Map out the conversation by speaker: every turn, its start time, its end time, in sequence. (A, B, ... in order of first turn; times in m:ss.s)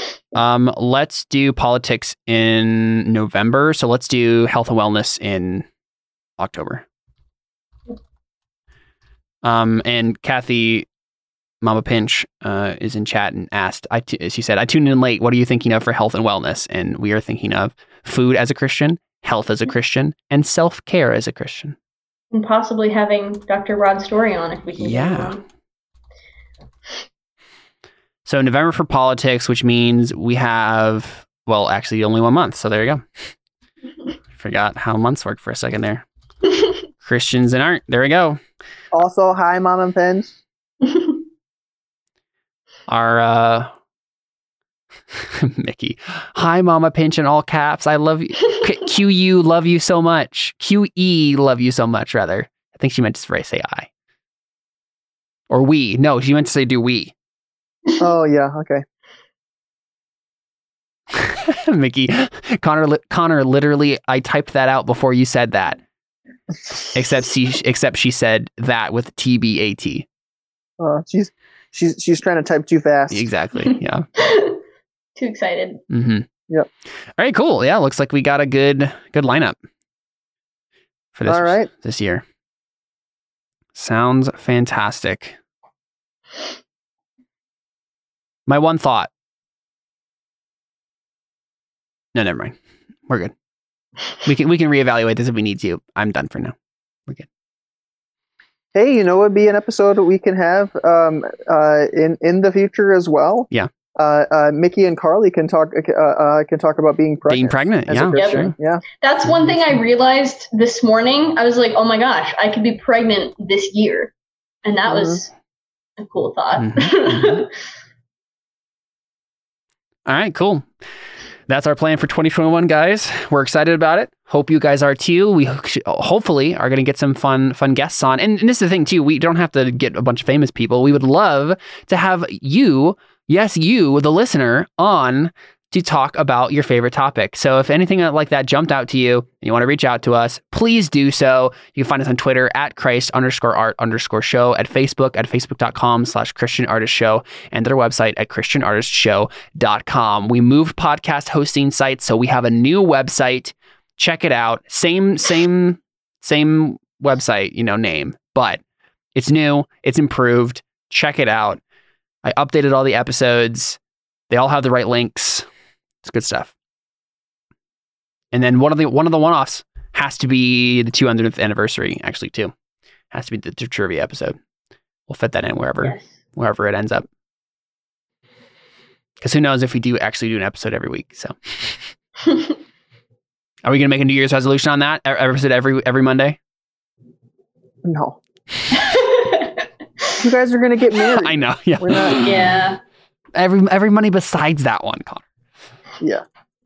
0:00.3-0:05.7 A
0:06.4-0:06.8 A
0:09.4-0:10.9 A
0:11.6-0:21.8 A
0:22.3-0:25.4 B
0:24.8-0:25.4 A
0:28.2-0:33.0 A
0:34.4-0:36.0 A
0:37.0-0:38.4 A
0:38.9-0:40.3 C
0:40.8-0:41.2 B
0:42.9-0:43.7 A
0:45.1-0:53.9 A
0:55.5-0:57.1 A
0:58.0-0:58.8 C
1:01.1-1:05.8 A
1:06.9-1:10.1 A
1:10.8-1:13.3 C
1:13.1-1:14.1 A
1:13.6-1:14.6 B
1:15.2-1:15.8 B
1:15.9-1:16.3 A
1:17.2-1:19.6 A
1:21.2-1:22.2 A
1:21.3-1:21.7 C
1:23.8-1:25.4 A
1:28.5-1:29.1 A
1:32.2-1:32.6 A
1:33.1-1:33.3 A
1:34.2-1:36.6 A
1:38.7-1:48.8 C
1:47.3-1:48.5 A
1:48.2-1:54.1 B
1:54.6-1:55.3 B
1:54.9-1:55.2 C
1:56.0-1:57.5 B
1:56.6-1:57.5 A
2:00.1-2:00.7 A
2:01.5-2:38.6 A
2:39.2-2:41.6 A
2:42.2-2:43.8 A
2:44.3-2:45.5 A
2:46.0-2:46.5 A
2:48.3-2:52.5 A
2:53.1-2:54.4 A
2:55.1-2:57.1 A
2:59.2-3:01.8 A
3:02.3-3:02.5 B
3:03.6-3:06.4 A
3:07.8-3:08.2 C
3:08.7-3:10.2 B
3:10.2-3:12.2 C
3:11.2-3:12.5 A
3:12.2-3:12.8 B
3:13.4-3:15.2 A